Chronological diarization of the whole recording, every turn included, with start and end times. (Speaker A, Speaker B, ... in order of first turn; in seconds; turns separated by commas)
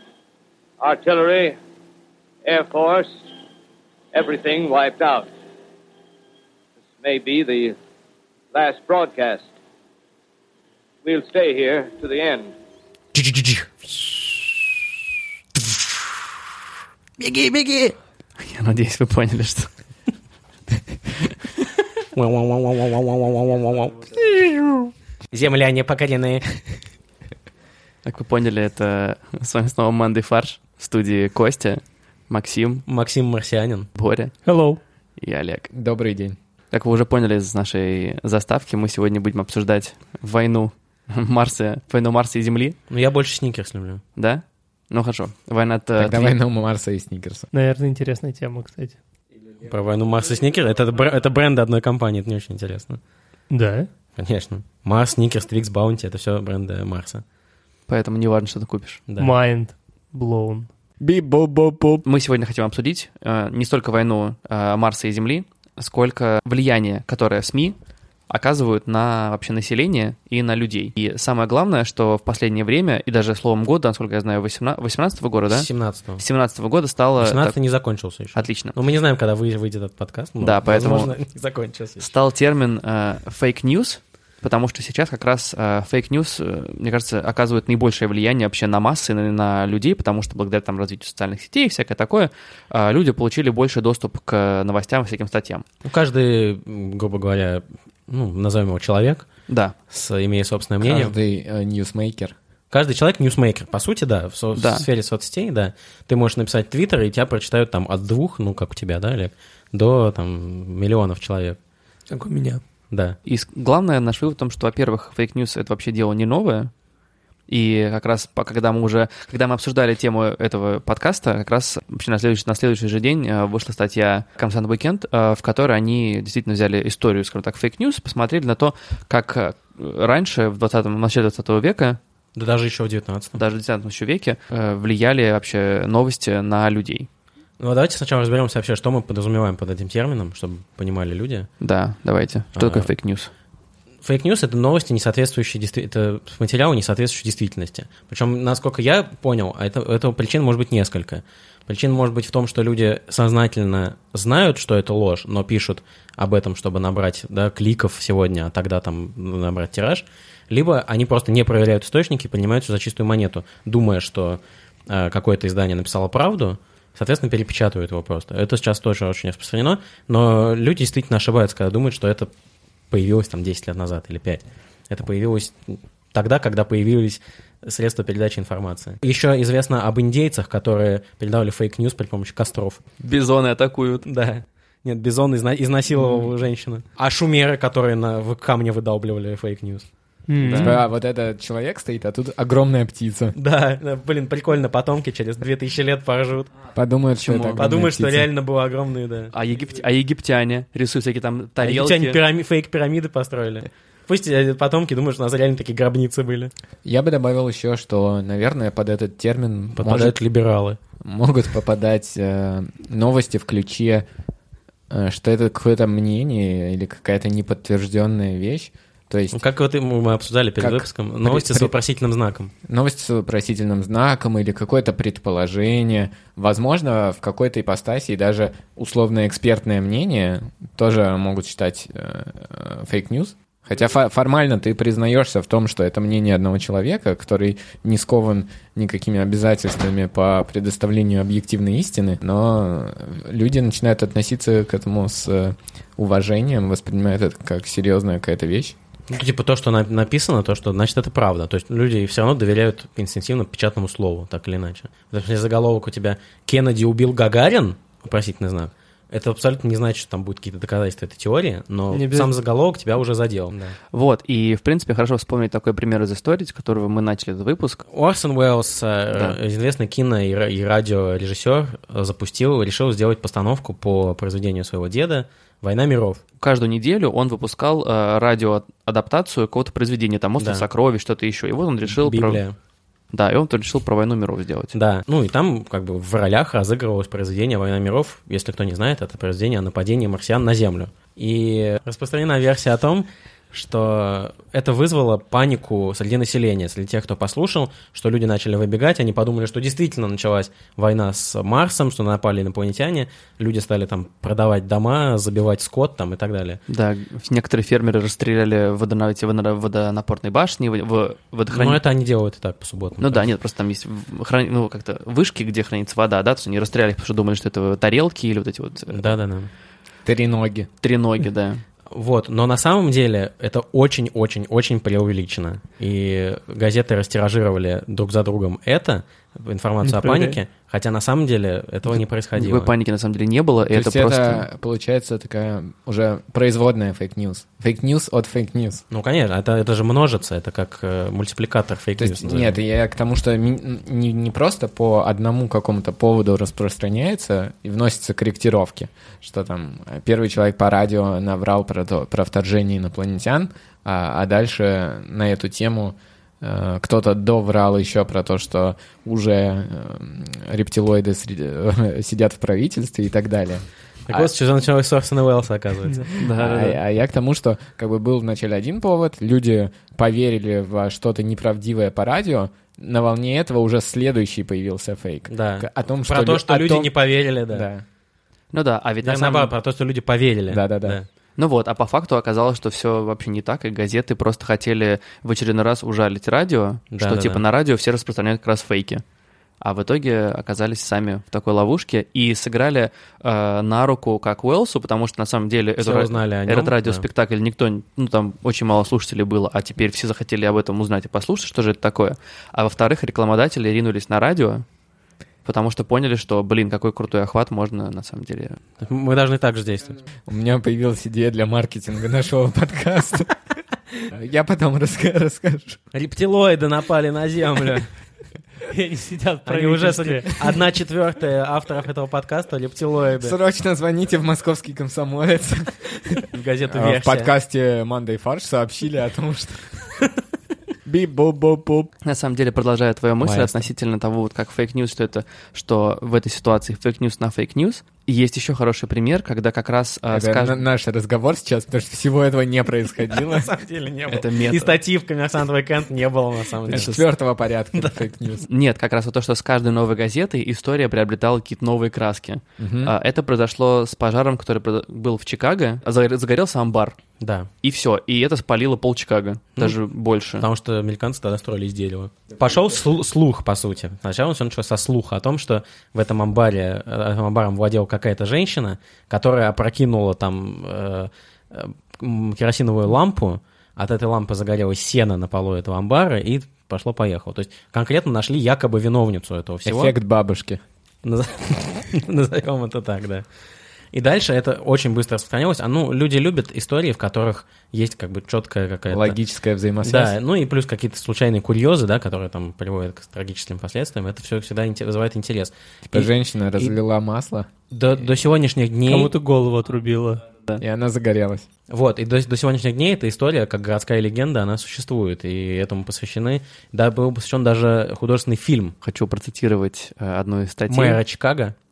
Speaker A: 0.8-1.6, Speaker A: 2.5-3.2, Speaker A: 4.1-5.3, Speaker A: 7.0-7.8, Speaker A: 8.5-9.5, Speaker A: 11.0-12.5, Speaker B: 13.1-14.4, Speaker B: 15.6-15.9, Speaker B: 17.2-18.0, Speaker C: 18.4-19.7, Speaker B: 22.1-26.6, Speaker C: 28.0-32.9, Speaker B: 32.9-33.9, Speaker C: 34.0-34.4, Speaker D: 34.5-34.8, Speaker C: 35.2-35.7, Speaker E: 35.7-36.4, Speaker C: 36.7-42.8, Speaker B: 42.9-44.0, Speaker C: 44.2-46.4, Speaker E: 46.0-47.5, Speaker D: 47.5-49.0, Speaker B: 49.6-53.0, Speaker D: 53.5-53.9, Speaker B: 54.2-57.2, Speaker C: 57.9-59.0, Speaker B: 59.1-59.4, Speaker D: 59.2-60.7, Speaker E: 61.0-62.0, Speaker C: 62.0-67.8, Speaker C: 68.3-77.6, Speaker B: 75.5-76.2, Speaker B: 77.2-82.1, Speaker C: 78.3-78.8, Speaker C: 80.4-81.2, Speaker C: 82.0-95.7, Speaker B: 95.8-99.3, Speaker C: 99.5-99.7, Speaker B: 99.9-101.2, Speaker E: 100.8-102.3, Speaker B: 102.7-111.6, Speaker C: 104.5-104.9, Speaker D: 112.1-112.6, Speaker B: 112.9-113.2, Speaker C: 113.3-116.7, Speaker C: 117.5-132.0, Speaker B: 132.3-133.4, Speaker C: 133.3-137.1, Speaker B: 137.6-141.5, Speaker C: 141.6-143.3, Speaker B: 142.6-142.9, Speaker B: 144.0-172.3, Speaker B: 172.9-182.8, Speaker C: 183.0-184.1, Speaker B: 184.0-189.9, Speaker D: 190.3-190.8, Speaker C: 190.4-190.8, Speaker E: 190.6-193.3, Speaker B: 193.4-196.5, Speaker E: 196.7-198.3, Speaker C: 197.2-197.6, Speaker B: 197.6-199.3, Speaker C: 199.3-202.2, Speaker B: 201.6-206.5, Speaker E: 206.8-210.2, Speaker B: 209.8-210.8, Speaker E: 211.0-214.1, Speaker E: 214.9-219.4, Speaker B: 219.3-222.5, Speaker E: 220.6-221.8, Speaker E: 222.7-248.8, Speaker B: 249.1-263.8, Speaker D: 261.9-262.3, Speaker C: 263.9-267.9, Speaker B: 267.9-276.2, Speaker C: 276.4-282.4, Speaker B: 280.4-280.7, Speaker B: 281.9-282.6, Speaker C: 283.1-284.8, Speaker B: 284.7-306.6, Speaker C: 306.7-311.8, Speaker B: 311.5-313.3, Speaker C: 313.0-319.1, Speaker B: 318.9-319.5, Speaker E: 320.1-320.7, Speaker C: 320.8-321.6, Speaker B: 321.9-332.7, Speaker D: 329.9-330.4, Speaker C: 331.9-334.4, Speaker E: 333.7-338.9, Speaker B: 338.9-342.6, Speaker E: 342.0-364.3, Speaker B: 364.1-366.2, Speaker C: 366.2-366.8, Speaker E: 366.2-377.9, Speaker B: 375.3-377.7, Speaker C: 378.5-379.5, Speaker B: 379.0-381.1, Speaker E: 380.5-381.0, Speaker C: 381.4-389.0, Speaker B: 386.9-387.4, Speaker C: 389.6-404.6, Speaker B: 395.8-397.0, Speaker C: 405.4-408.6, Speaker B: 408.8-410.0, Speaker E: 410.3-413.3, Speaker E: 414.0-415.8, Speaker B: 415.9-417.9, Speaker D: 418.7-420.3, Speaker B: 419.5-423.4, Speaker E: 423.2-429.9, Speaker B: 426.3-427.3, Speaker E: 430.9-431.9, Speaker C: 432.0-440.6, Speaker B: 433.2-433.7, Speaker E: 440.1-443.5, Speaker B: 443.1-447.0, Speaker C: 444.1-444.8, Speaker C: 446.7-447.0, Speaker E: 446.7-448.4, Speaker C: 448.5-457.0, Speaker E: 452.6-452.9, Speaker B: 457.2-457.5, Speaker C: 457.6-460.5, Speaker B: 460.4-479.9, Speaker E: 479.6-480.6, Speaker B: 481.0-483.2, Speaker B: 483.9-489.2, Speaker E: 488.9-490.2, Speaker B: 489.8-496.7, Speaker E: 495.9-497.5, Speaker B: 497.7-499.1, Speaker D: 498.9-500.2, Speaker E: 500.6-501.5, Speaker B: 501.7-508.8, Speaker C: 508.8-511.0, Speaker B: 510.7-511.6